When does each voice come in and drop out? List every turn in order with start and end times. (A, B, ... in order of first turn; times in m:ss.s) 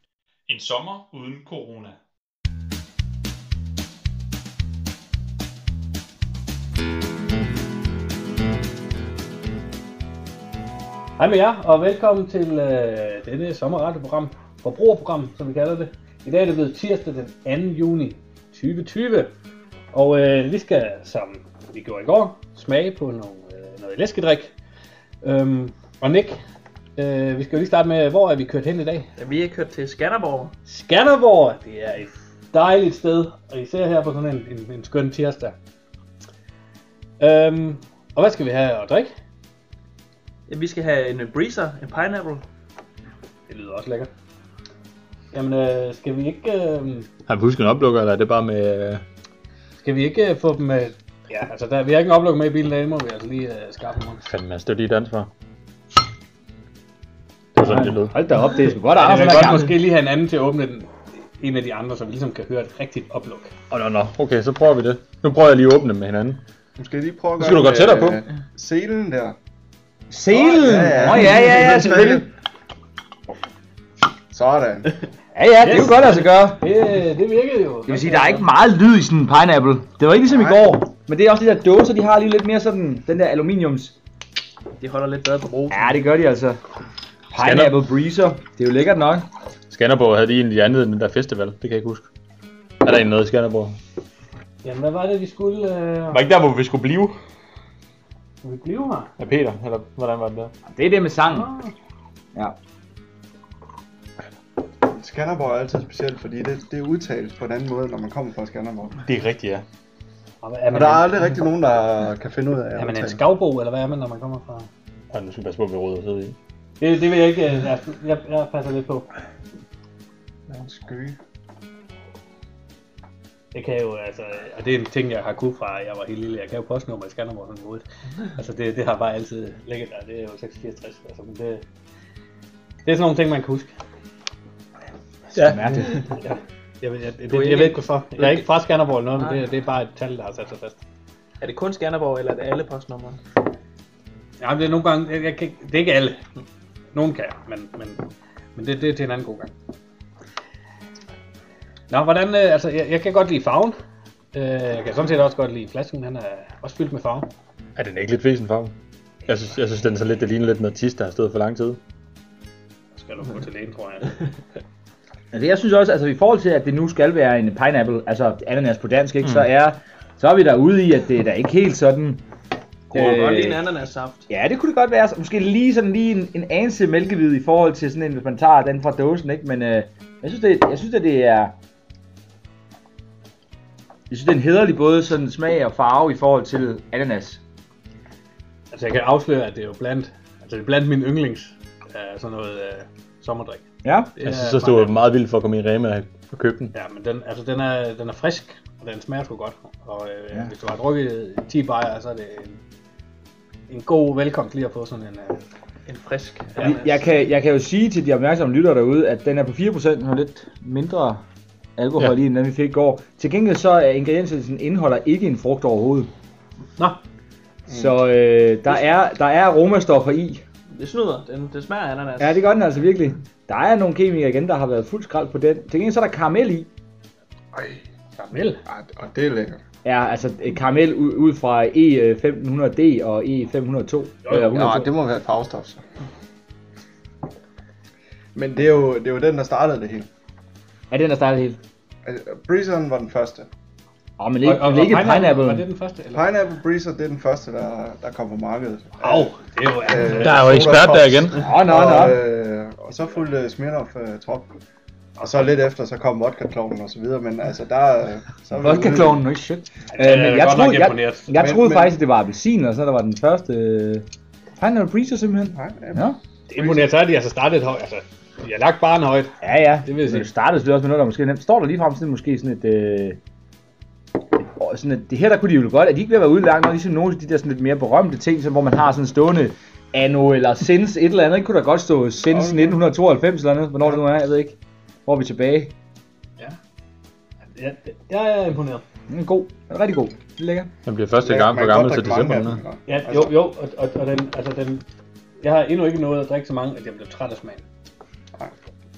0:00.5-0:02.0 A
0:11.2-0:19.3 B
0:19.9-0:24.5 B
0:25.2-0:26.4 B
0:27.0-0:29.1 B
0:29.2-0:30.5 C
0:30.7-0:35.5 B
0:37.2-0:39.1 B
0:40.5-0:42.4 C
0:43.5-0:44.1 B
0:45.3-0:47.1 B
0:47.3-0:49.0 A
0:49.8-0:54.3 B
0:54.2-0:55.3 A
0:57.6-0:58.1 A
0:57.6-0:59.8 D
0:58.9-1:03.5 B
1:03.7-1:06.4 A
1:06.8-1:09.4 E
1:07.4-1:08.2 A
1:10.1-1:12.3 D
1:10.3-1:12.3 E
1:14.3-1:15.0 E
1:15.3-1:16.6 D
1:15.6-1:18.4 B
1:17.9-1:24.0 D
1:20.3-1:20.6 E
1:24.8-1:26.0 C
1:25.7-1:26.6 D
1:27.3-1:29.3 D
1:27.4-1:27.8 A
1:29.7-1:32.1 A
1:32.8-1:33.8 A
1:34.6-1:36.2 B
1:36.1-1:37.2 A
1:38.4-1:39.1 B
1:39.2-1:40.5 A
1:40.7-1:41.5 D
1:41.3-1:41.7 B
1:44.9-1:49.0 E
1:49.0-1:49.6 A
1:50.4-1:51.2 B
1:50.7-1:53.2 E
1:52.8-1:54.7 B
1:55.1-1:56.4 A
1:56.8-1:59.1 B
2:00.5-2:01.2 E
2:03.5-2:11.6 B
2:12.8-2:13.7 B
2:15.3-2:15.6 A
2:15.4-2:16.0 D
2:16.2-2:20.8 B
2:17.3-2:18.5 C
2:19.1-2:19.4 C
2:21.4-2:23.2 C
2:24.4-2:26.2 B
2:26.9-2:29.5 B
2:31.9-2:33.8 B
2:34.3-2:37.3 B
2:37.8-2:38.7 A
2:39.2-2:41.8 A
2:42.9-2:44.2 B
2:45.3-2:52.2 D
2:52.9-2:54.3 C
2:52.9-2:53.6 D
2:54.3-3:01.6 D
3:04.1-3:07.4 D
3:08.7-3:13.6 B
3:13.8-3:14.2 D
3:14.2-3:15.0 B
3:14.2-3:16.7 A
3:16.7-3:22.6 B
3:23.7-3:25.4 B
3:25.9-3:27.0 C
3:26.6-3:31.2 D
3:31.8-3:36.1 D
3:37.7-3:40.4 D
3:40.7-3:42.4 C
3:42.2-3:46.7 D
3:47.5-3:47.8 E
3:48.2-3:48.6 B
3:48.7-3:49.6 E
3:49.8-3:54.9 D
3:54.2-3:54.7 B
3:54.4-3:55.8 E
3:58.3-4:00.1 E
4:00.9-4:01.6 D
4:02.0-4:03.5 E
4:04.2-4:05.6 D
4:04.4-4:06.3 B
4:06.1-4:09.3 E
4:09.0-4:10.6 B
4:09.8-4:14.6 E
4:10.2-4:11.4 A
4:11.4-4:12.2 D
4:15.2-4:19.2 E
4:18.6-4:24.0 D
4:19.9-4:21.3 B
4:21.3-4:22.0 E
4:24.6-4:26.2 D
4:25.6-4:26.9 E
4:26.5-4:30.3 B
4:29.4-4:33.2 D
4:34.4-4:45.8 D
4:42.3-4:42.8 E
4:47.6-4:48.8 B
4:49.1-4:50.7 D
4:50.8-4:52.6 A
4:51.2-4:53.3 E
4:52.9-4:54.9 B
4:55.4-4:57.6 B